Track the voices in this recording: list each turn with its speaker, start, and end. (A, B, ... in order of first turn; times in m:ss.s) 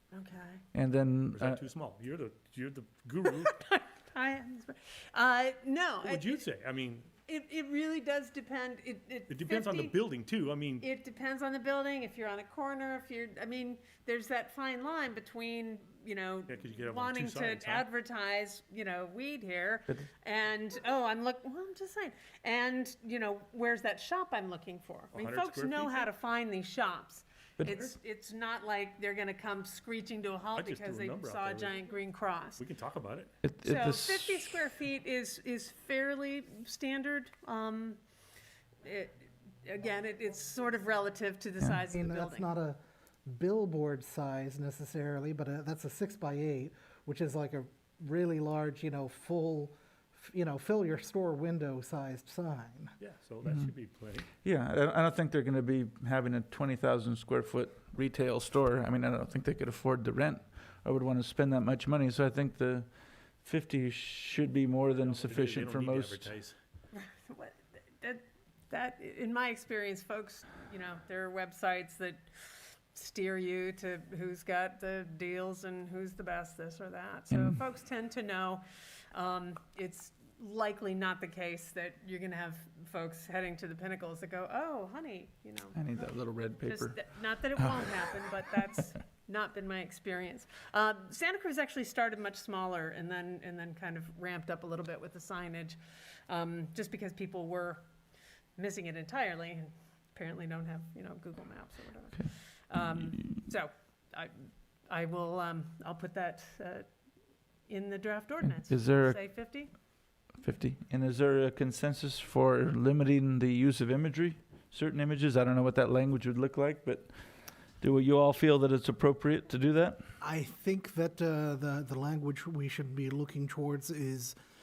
0:00.1-0:00.6 A
0:00.7-0:01.6 B
0:01.3-0:03.5 C
0:03.4-0:06.4 A
0:06.0-0:07.1 C
0:07.2-0:10.0 A
0:09.3-0:10.8 C
0:10.8-0:32.6 A
0:16.5-0:17.9 C
0:25.1-0:26.1 C
0:30.6-0:31.8 C
0:32.6-0:33.3 C
0:33.4-0:34.4 B
0:33.6-0:38.0 A
0:38.8-0:42.5 A
0:41.9-0:53.0 D
0:53.0-0:54.3 C
0:54.4-1:06.3 B
1:04.8-1:06.6 C
1:06.9-1:26.1 A
1:17.3-1:17.6 B
1:25.8-1:27.0 B
1:26.6-1:37.8 A
1:38.6-1:46.9 A
1:47.7-1:49.7 A
1:48.4-1:49.2 B
1:50.4-1:57.1 B
1:57.8-2:00.0 B
2:00.2-2:04.4 D